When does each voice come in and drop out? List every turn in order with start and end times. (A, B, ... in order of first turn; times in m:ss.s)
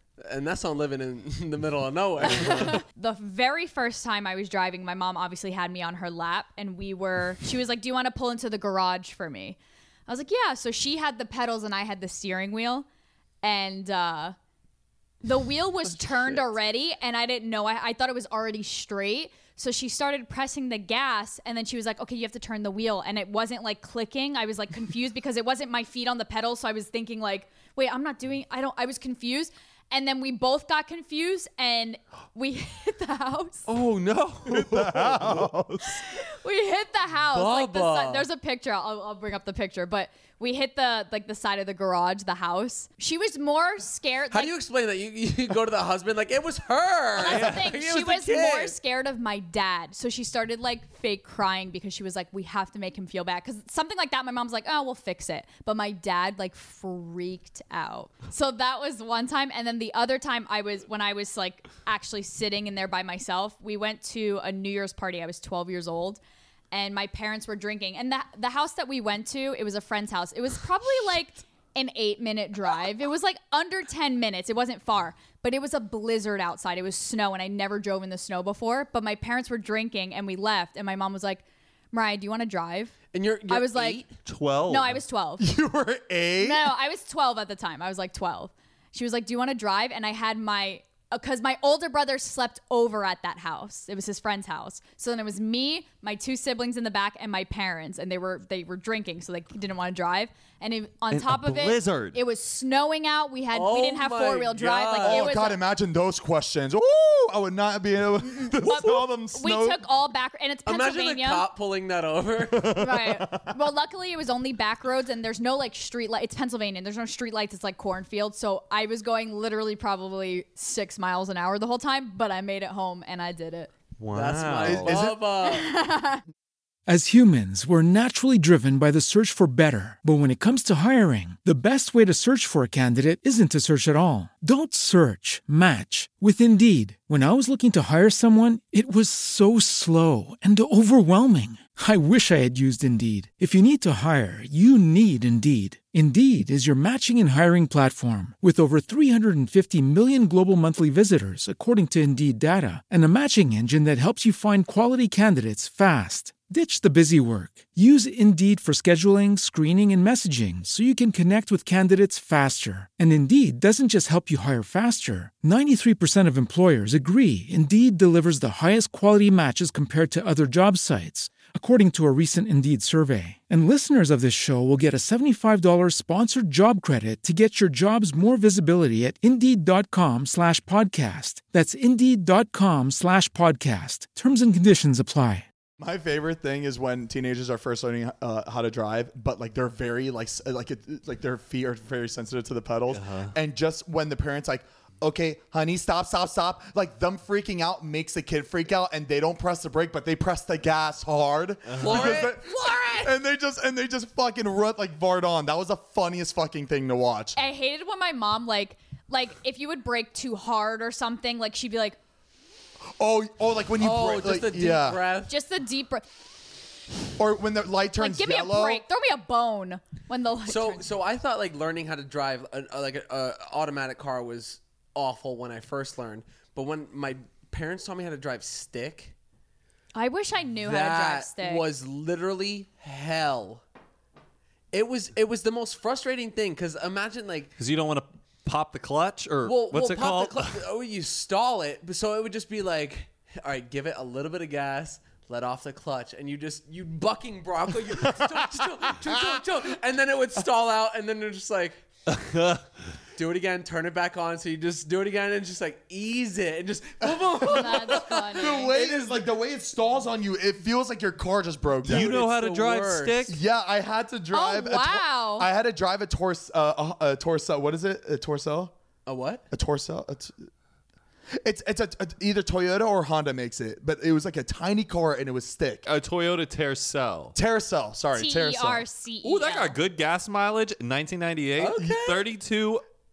0:00.2-0:02.8 A
0:02.3-0:12.8 B
0:13.4-0:14.3 B
0:15.2-0:33.7 B
0:15.8-0:16.6 A
0:33.7-0:35.4 C
0:34.4-0:36.0 D
0:35.8-0:44.5 B
0:37.3-0:38.3 A
0:44.3-0:48.8 A
0:47.2-1:06.2 B
0:47.2-0:47.7 C
1:06.7-1:23.0 B
1:23.1-1:24.1 A
1:23.5-1:24.0 B
1:24.2-1:25.0 C
1:24.7-1:25.5 B
1:25.4-1:26.7 D
1:26.4-1:45.6 B
1:41.1-1:42.2 C
1:43.5-1:45.3 A
1:45.0-1:49.8 D
1:48.3-1:51.5 B
1:50.6-1:52.7 A
1:52.5-1:53.6 D
1:52.7-2:03.7 B
2:04.0-2:05.0 C
2:04.1-2:05.7 A
2:04.6-2:05.2 D
2:05.4-2:06.2 B
2:06.9-3:05.4 E
3:05.8-3:27.4 D
3:12.9-3:13.3 C
3:21.7-3:22.3 C
3:21.8-3:23.1 A
3:27.4-3:32.0 B
3:33.0-3:35.0 D
3:33.8-3:35.3 A
3:35.3-3:36.0 B
3:37.2-3:38.8 D
3:38.0-3:40.9 B
3:40.4-3:49.1 A
3:49.9-3:51.6 B
3:50.6-3:53.6 A
3:54.7-3:57.5 A
3:57.6-4:00.6 C
3:59.4-4:11.8 A
4:12.1-4:12.6 C
4:13.2-4:19.0 A
4:17.0-4:22.2 D
4:17.4-4:18.7 B
4:21.8-4:23.4 C
4:21.8-4:23.4 A
4:23.2-4:28.7 D
4:24.3-4:25.5 B
4:29.0-4:29.4 A
4:29.5-4:30.3 D
4:31.4-4:35.9 D
4:35.8-4:37.4 C
4:37.3-4:38.8 D
4:38.1-4:39.8 B
4:39.2-4:42.8 C
4:41.6-4:42.2 A